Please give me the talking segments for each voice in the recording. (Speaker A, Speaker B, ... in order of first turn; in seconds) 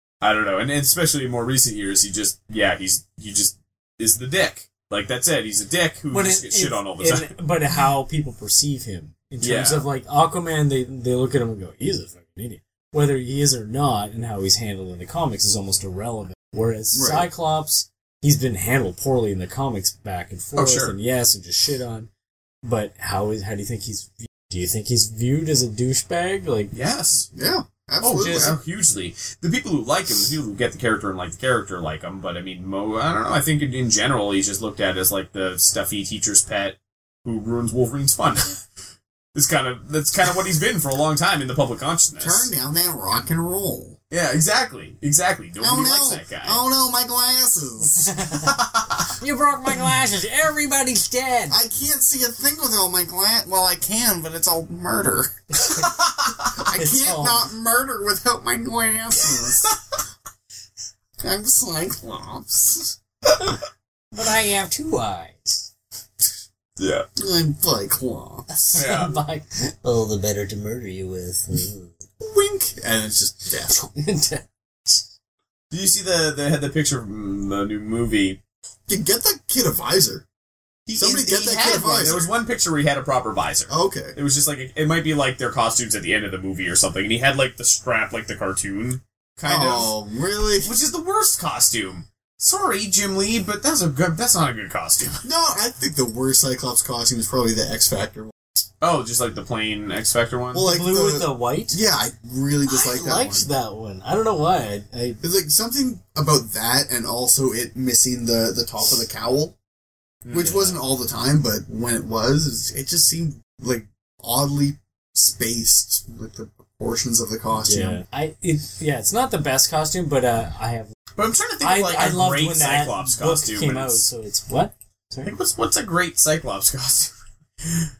Speaker A: 0.2-7.3, 9.4-9.8, 20.6-20.9, 26.7-27.3, 28.0-38.6, 39.3-42.5, 44.1-46.6, 48.4-49.1, 55.8-56.5, 66.8-67.0, 68.7-69.1, 75.7-78.4, 80.9-89.9, 90.6-95.2, 98.8-100.7, 110.2-110.8, 121.2-124.0, 125.2-127.1
Speaker B: 6.1-22.1, 22.6-26.7, 28.1-28.5, 47.8-48.5, 49.2-51.6, 56.7-57.5, 64.1-65.7, 68.5-71.9, 73.7-75.0, 100.6-101.8, 102.7-105.2, 117.7-120.9, 121.6-125.3
Speaker C: 16.9-17.3, 27.3-28.6, 42.2-44.0, 45.6-48.1, 51.5-55.6, 56.5-59.7, 61.2-63.0, 67.2-68.8, 72.2-73.8, 78.9-80.2, 80.9-82.3, 83.7-84.2, 89.5-90.7, 95.2-98.3, 100.5-103.5, 105.2-109.5, 110.3-118.0